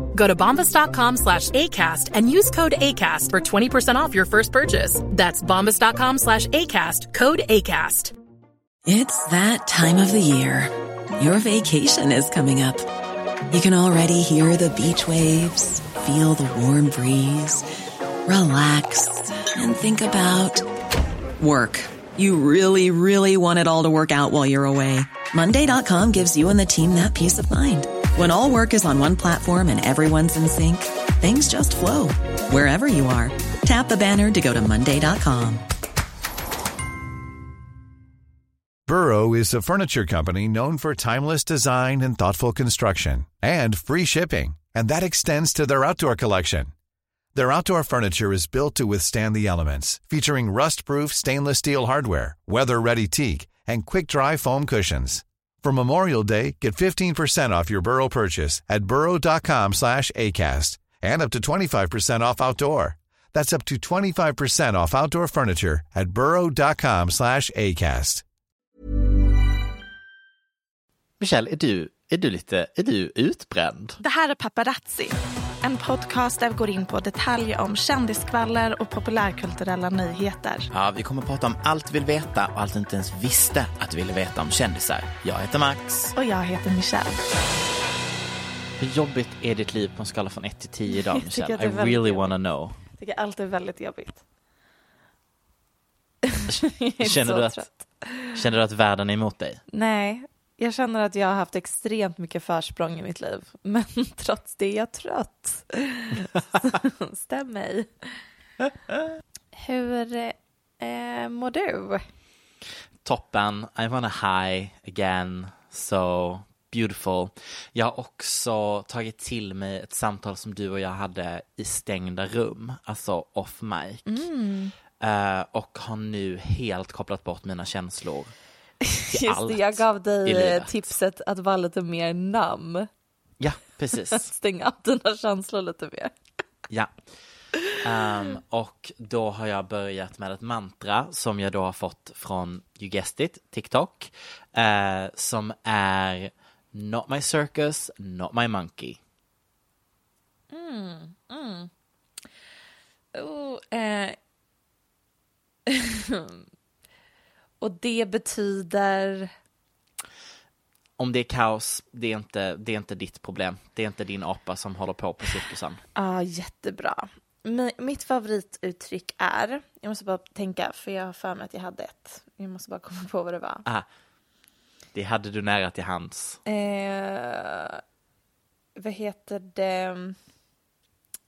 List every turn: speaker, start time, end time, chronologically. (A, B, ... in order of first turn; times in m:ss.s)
0:00.1-0:08.1 A
0:08.9-0:12.9 B
0:13.5-0:17.6 B
0:18.3-0:20.7 B
0:21.4-0:35.6 B
0:38.9-0:46.7 C
0:47.4-1:08.2 C
1:11.2-1:14.0 D
1:14.0-1:20.7 E
1:20.7-1:26.2 D
1:26.2-1:27.2 E
1:28.8-1:32.8 D
1:31.0-1:32.3 E
1:33.0-1:34.2 E
1:36.3-1:38.2 E
1:36.5-1:37.7 D
1:38.3-1:39.6 D
1:39.7-1:47.9 E
1:49.5-1:52.0 E
1:53.0-2:04.2 D
2:04.1-2:04.7 E
2:05.0-2:08.3 D
2:08.9-2:12.9 E
2:09.1-2:10.9 D
2:13.4-2:14.3 D
2:14.1-2:16.1 E
2:17.8-2:29.0 D
2:30.5-2:31.7 E
2:33.2-2:34.2 E
2:35.7-2:36.3 E
2:37.6-2:39.3 E
2:41.0-2:45.8 D
2:46.0-2:53.7 E
2:54.9-2:56.4 D
2:56.5-2:57.8 E
2:58.8-3:00.2 E